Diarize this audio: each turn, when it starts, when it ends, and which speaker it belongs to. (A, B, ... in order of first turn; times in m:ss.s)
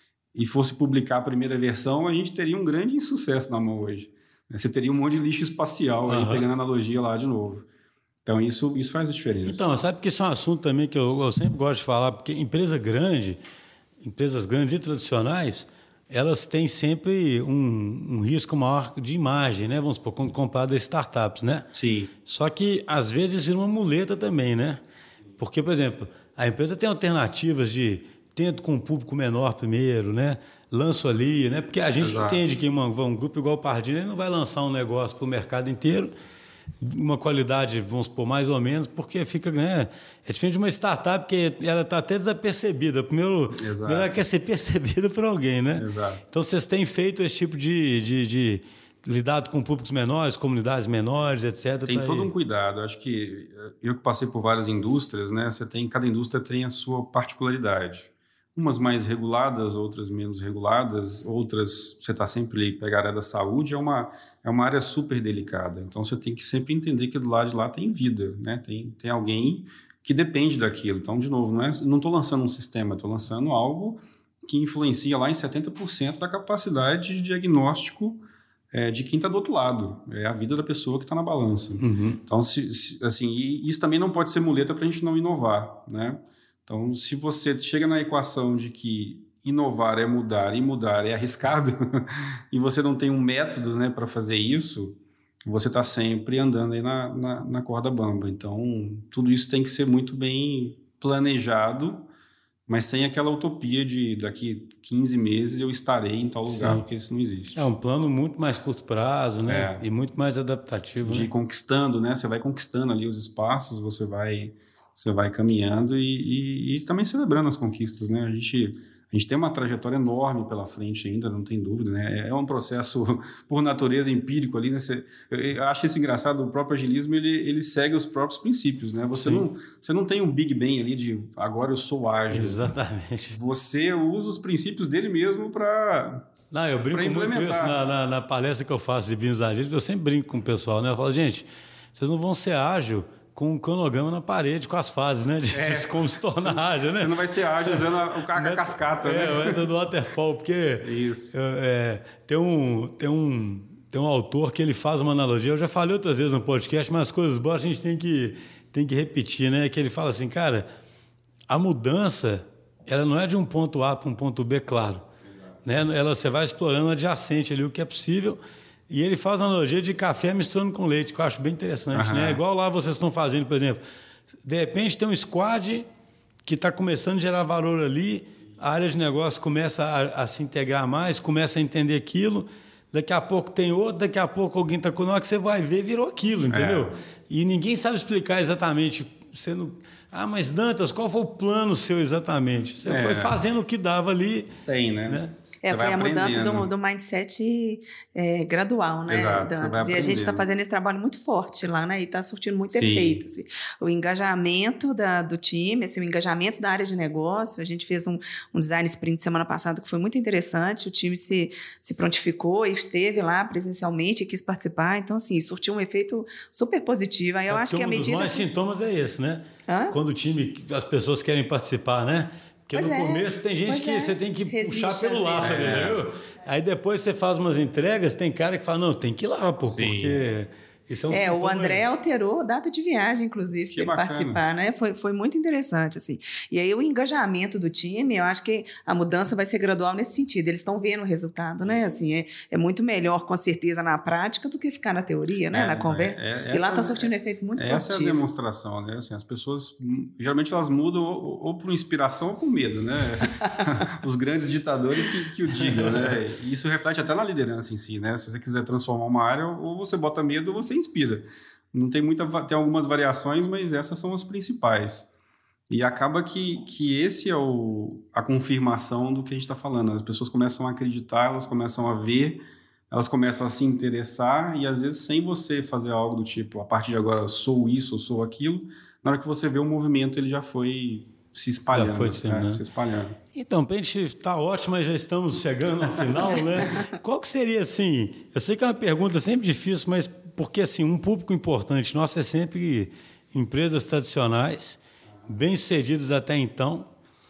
0:00.4-0:07.7 A
0:06.1-0:06.5 B
0:08.2-0:09.7 A
0:09.4-0:13.4 B
0:14.0-0:21.7 B
0:21.8-0:22.1 A
0:22.3-0:24.8 B
0:25.4-0:36.1 B
0:32.0-0:32.4 A
0:36.8-0:52.3 B
0:43.6-0:44.1 A
0:45.8-0:46.2 A
0:51.9-1:42.1 A
1:21.8-1:22.2 B
1:42.7-1:47.6 A
1:46.5-1:46.8 B
1:47.6-1:51.3 B
1:49.5-1:49.8 A
1:51.0-2:12.7 A
2:09.1-2:09.5 B
2:12.3-2:13.4 B
2:13.3-2:16.3 A
2:16.5-2:40.7 B
2:16.9-2:17.8 A
2:25.5-2:29.7 A
2:30.8-2:31.3 A
2:41.5-2:45.1 B
2:45.6-2:53.8 B
2:51.9-2:52.4 A
2:54.4-2:55.9 B
2:56.4-3:14.5 B
3:06.5-3:07.0 A
3:12.9-3:13.4 A
3:14.7-3:16.7 A
3:15.6-3:38.5 C
3:19.1-3:20.4 A
3:22.7-3:23.2 A
3:37.5-3:51.8 B
3:39.7-3:40.0 C
3:42.7-3:45.8 C
3:45.4-3:46.0 A
3:49.7-3:50.3 A
3:51.1-4:08.2 C
3:53.8-3:54.4 A
4:05.5-4:25.1 A
4:15.6-4:16.2 B
4:25.7-4:43.2 A
4:41.7-4:42.6 B
4:43.3-4:56.9 B